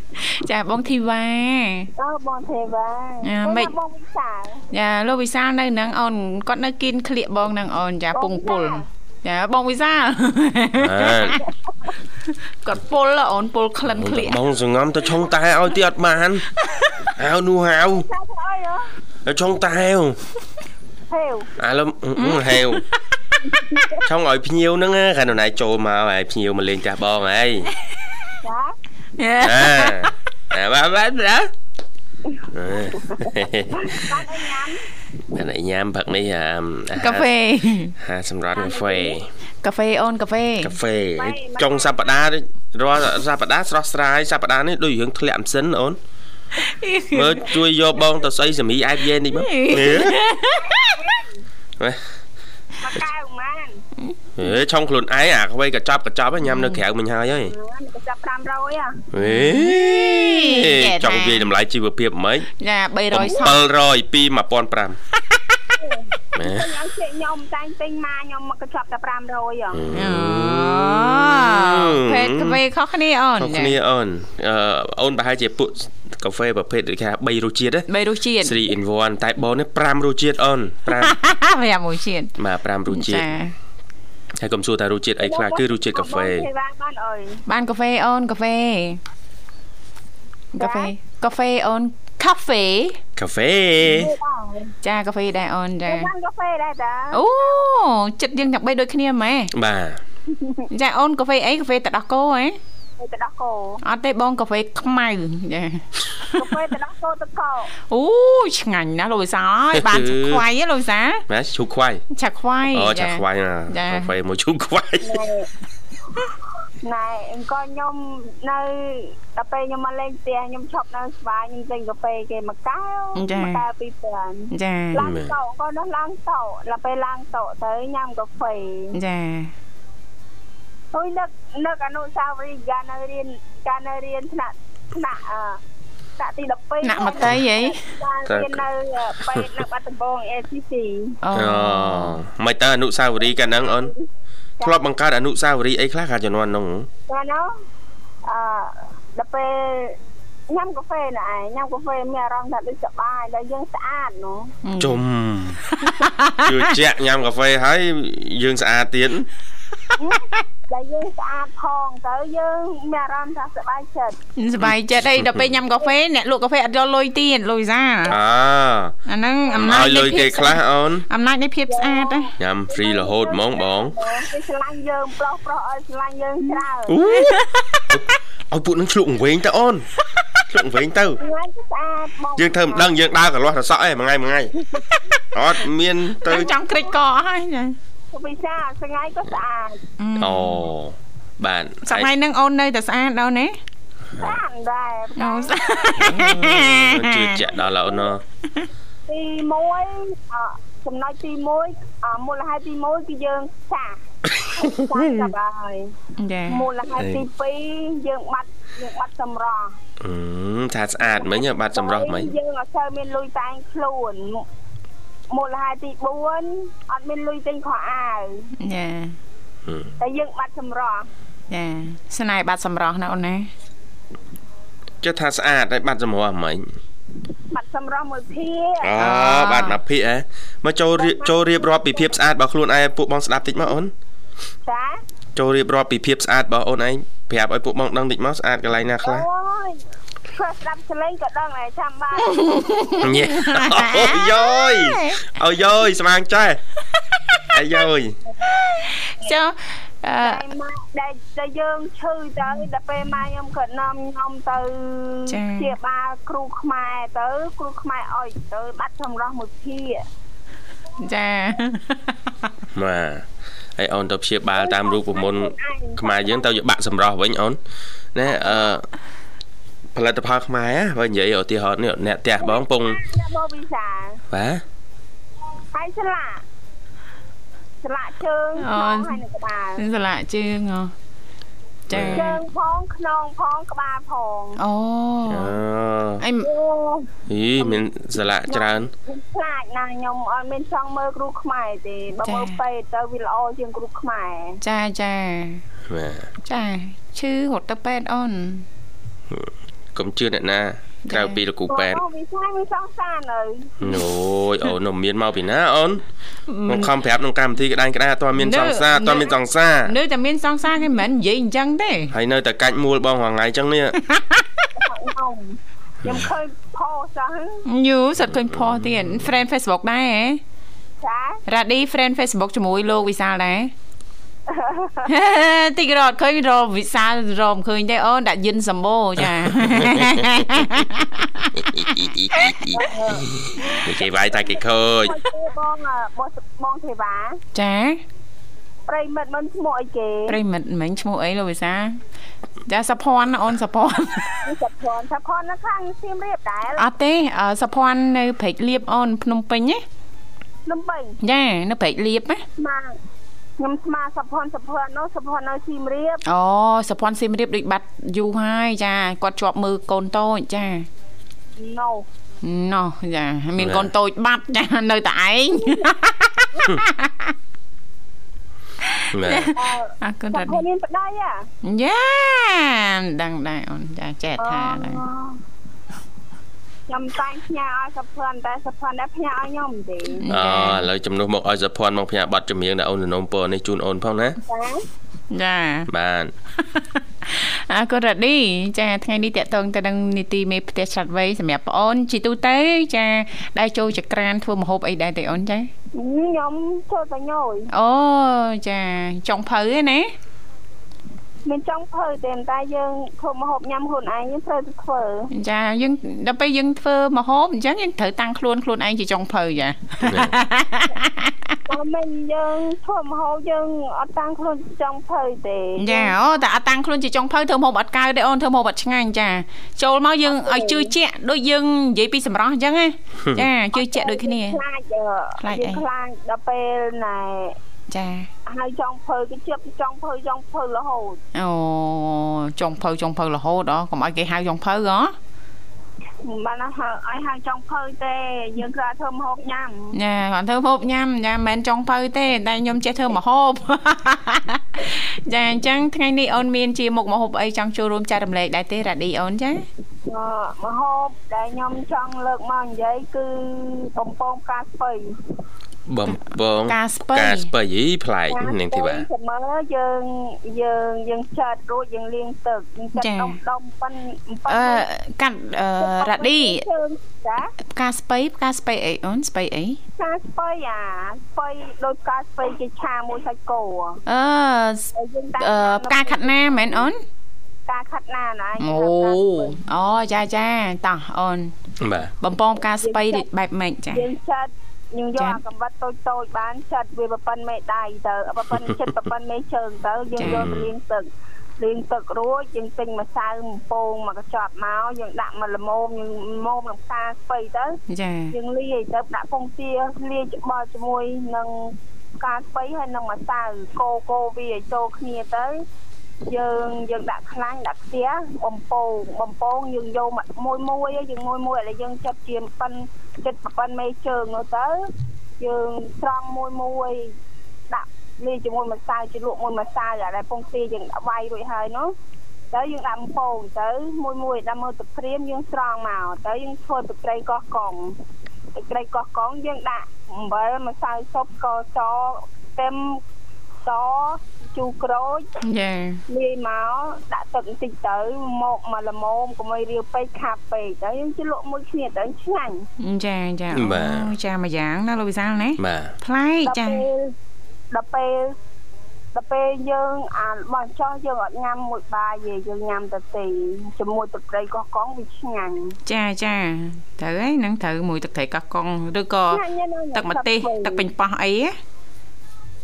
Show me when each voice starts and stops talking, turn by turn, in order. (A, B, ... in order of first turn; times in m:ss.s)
0:00.2-0:01.9 A
0:02.0-0:04.6 B
0:03.2-0:03.7 A
0:04.7-0:11.4 A
0:08.1-0:08.8 B
0:10.8-0:11.4 C
0:11.4-0:11.9 B
0:12.2-0:14.4 A
0:13.9-0:16.4 C
0:16.6-0:17.1 A
0:17.2-0:18.0 C
0:17.9-0:18.9 B
0:19.2-0:20.2 C
0:21.1-0:21.5 B
0:21.6-0:22.8 C
0:22.2-0:22.8 A
0:23.4-0:24.0 B
0:24.0-0:27.7 C
0:28.4-0:28.7 B
0:29.2-0:30.1 A
0:29.4-0:31.5 C
0:32.5-0:34.2 C
0:33.0-0:34.8 B
0:35.3-0:37.3 C
0:37.0-0:37.9 A
0:38.0-0:39.3 C
0:38.5-0:39.2 B
0:39.6-0:40.7 A
0:40.6-0:46.0 C
0:41.2-0:42.2 B
0:46.6-0:47.5 A
0:47.1-0:50.2 C
0:49.3-0:51.1 A
0:50.7-0:51.4 B
0:52.8-0:53.8 B
0:54.0-0:54.5 A
0:54.4-0:57.5 C
0:56.4-0:56.8 A
0:57.4-0:59.0 B
0:59.1-1:02.5 C
0:59.2-1:01.5 A
1:02.6-1:03.6 A
1:03.1-1:05.0 C
1:05.8-1:09.9 B
1:06.4-1:06.7 C
1:09.7-1:12.6 C
1:09.9-1:13.8 A
1:13.4-1:17.9 C
1:17.9-1:18.7 A
1:18.4-1:21.2 C
1:20.9-1:22.4 A
1:22.4-1:23.3 C
1:22.9-1:23.5 A
1:24.4-1:26.5 C
1:25.2-1:27.4 B
1:27.5-1:29.0 A
1:30.5-1:33.0 A
1:30.6-1:30.9 B
1:33.2-1:34.1 C
1:33.8-1:34.8 B
1:34.8-1:36.1 A
1:35.8-1:37.7 B
1:37.1-1:39.5 A
1:39.5-1:40.0 C
1:40.3-1:40.7 B
1:40.7-1:42.6 A
1:43.0-1:43.8 B
1:43.8-1:46.6 A
1:46.3-1:47.7 B
1:47.9-1:51.2 A
1:49.7-1:50.4 C
1:51.3-1:52.0 C
1:52.1-1:54.1 A
1:52.7-1:55.2 C
1:55.0-1:55.5 B
1:56.8-2:09.0 B
2:03.2-2:03.6 A
2:04.5-2:05.0 A
2:05.0-2:05.3 C
2:08.9-2:09.5 A
2:10.9-2:15.6 B
2:16.2-2:21.2 B
2:16.8-2:17.8 A
2:18.3-2:18.6 C
2:19.2-2:19.5 C
2:21.2-2:22.2 A
2:21.3-2:23.9 C
2:23.6-2:24.0 B
2:24.6-2:26.9 C
2:27.1-2:27.5 B
2:28.2-2:30.0 B
2:30.5-2:34.5 B
2:34.6-2:35.0 A
2:34.8-2:35.6 C
2:35.7-2:36.7 A
2:36.4-2:39.2 C
2:40.0-2:44.2 B
2:44.4-2:48.2 A
2:44.6-2:45.5 C
2:48.1-2:48.9 C
2:49.1-2:52.3 A
2:49.6-2:51.0 C
2:51.7-2:57.0 B
2:52.4-2:54.0 C
2:56.4-2:58.0 A
2:56.9-2:57.4 C
2:57.9-2:59.9 C
3:00.5-3:01.2 C
3:01.2-3:02.9 B
3:02.4-3:04.5 C
3:05.3-3:06.5 C
3:06.2-3:07.8 A
3:06.4-3:06.9 B
3:08.1-3:09.8 B
3:10.0-3:10.6 A
3:10.2-3:12.1 C
3:11.8-3:13.6 A
3:14.2-3:16.0 B
3:15.2-3:17.4 A
3:16.0-3:18.2 C
3:19.1-3:24.0 B
3:24.2-3:25.3 C
3:24.6-3:25.9 B
3:26.2-3:26.7 A
3:26.5-3:29.8 B
3:27.0-3:27.2 C
3:30.0-3:32.3 C
3:31.0-3:34.4 B
3:35.3-3:38.5 B
3:38.6-3:39.2 A
3:39.6-3:39.9 C
3:40.0-3:41.1 B
3:41.5-3:43.5 A
3:45.0-3:46.6 C
3:47.5-3:49.0 B
3:48.8-3:53.9 C
3:49.0-3:49.8 A
3:51.0-3:52.1 B
3:54.6-3:55.0 B
3:55.4-3:59.2 C
3:59.0-4:02.7 B
4:02.2-4:05.2 A
4:03.0-4:06.6 C
4:07.4-4:07.8 A
4:07.5-4:08.1 C
4:08.5-4:10.4 A
4:10.2-4:20.0 B
4:15.3-4:15.7 A
4:21.0-4:22.2 A
4:22.7-4:23.2 C
4:23.8-4:27.6 C
4:24.5-4:26.6 B
4:28.1-4:28.8 C
4:28.5-4:28.7 B
4:29.9-4:33.0 C
4:32.4-4:34.2 B
4:34.3-4:34.6 C
4:35.7-4:36.4 B
4:37.8-4:39.8 B
4:38.6-4:39.2 A
4:39.8-4:40.9 A
4:41.9-4:42.3 A
4:41.9-4:42.3 C
4:42.1-4:44.6 B
4:44.6-4:45.6 A
4:45.3-4:46.2 C
4:46.2-4:46.5 A
4:46.4-4:47.8 B
4:47.3-4:48.9 C
4:48.5-4:54.6 B
4:52.2-4:52.6 A
4:54.6-4:55.6 A
4:55.9-4:56.3 C
4:56.4-4:58.6 A
4:59.3-5:02.0 C
5:01.1-5:01.4 A
5:01.7-5:04.0 B
5:03.8-5:06.0 C
5:06.5-5:06.9 A
5:06.7-5:09.9 C
5:08.3-5:09.3 A
5:09.8-5:12.1 A
5:12.1-5:14.0 C
5:14.0-5:14.7 A
5:14.8-5:17.6 B
5:17.7-5:20.4 A
5:18.2-5:19.3 C
5:21.0-5:21.4 B
5:21.5-5:23.7 A
5:24.5-5:25.1 B
5:25.1-5:32.8 A
5:29.2-5:30.6 C
5:31.6-5:35.2 C
5:32.7-5:37.4 B
5:37.5-5:38.0 A
5:38.9-5:40.4 B
5:40.3-5:42.0 A
5:42.6-5:44.4 A
5:44.4-5:46.8 B
5:46.8-5:49.8 A
5:50.7-5:51.2 B
5:51.2-5:52.4 A
5:52.6-5:53.0 B
5:53.6-5:56.2 B
5:56.2-6:00.9 A
6:01.6-6:02.0 B
6:02.4-6:07.3 A
6:03.6-6:03.9 C
6:08.8-6:10.6 A
6:09.1-6:09.5 C
6:09.5-6:11.5 B
6:11.6-6:15.0 A
6:14.4-6:15.4 B
6:16.9-6:20.2 B
6:20.2-6:20.9 A
6:20.3-6:24.4 C
6:24.5-6:24.8 B
6:25.3-6:25.9 A
6:25.9-6:26.3 C
6:26.6-6:35.7 A
6:35.9-6:37.7 B
6:37.7-6:40.1 A
6:41.4-6:45.3 B
6:45.3-6:51.6 A
6:50.0-6:50.3 C
6:51.7-6:56.1 B
6:55.8-7:04.6 A
7:00.2-7:00.9 B
7:03.7-7:07.6 B
7:05.4-7:05.8 A
7:07.9-7:08.3 A
7:08.4-7:11.2 B
7:11.3-7:15.1 A
7:16.2-7:19.9 B
7:19.9-7:29.6 A
7:30.1-7:35.1 B
7:35.9-7:39.0 C
7:36.7-7:37.5 A
7:38.3-7:44.8 B
7:43.0-7:43.4 A
7:44.5-7:46.6 A
7:45.8-7:47.5 B
7:47.7-7:49.8 A
7:50.0-7:54.0 B
7:54.1-7:57.0 A
7:54.9-7:56.9 B
7:57.7-7:59.6 B
7:58.6-8:01.5 A
8:01.8-8:02.1 C
8:02.2-8:04.1 A
8:02.8-8:03.2 B
8:03.9-8:11.1 B
8:10.2-8:10.5 A
8:10.2-8:10.7 C
8:11.6-8:17.8 B
8:17.9-8:18.3 A
8:18.3-8:25.6 B
8:26.3-8:34.8 B
8:35.4-8:37.1 B
8:37.7-8:41.9 B
8:42.5-8:48.0 B
8:48.5-8:53.0 B
8:53.6-8:55.3 B
8:55.4-8:56.0 A
8:56.1-9:02.7 B
9:02.8-9:06.8 A
9:03.5-9:04.1 C
9:05.6-9:06.0 C
9:06.4-9:07.1 B
9:07.7-9:08.3 B
9:09.1-9:15.8 B
9:15.8-9:19.4 A
9:19.3-9:20.9 B
9:19.9-9:21.6 A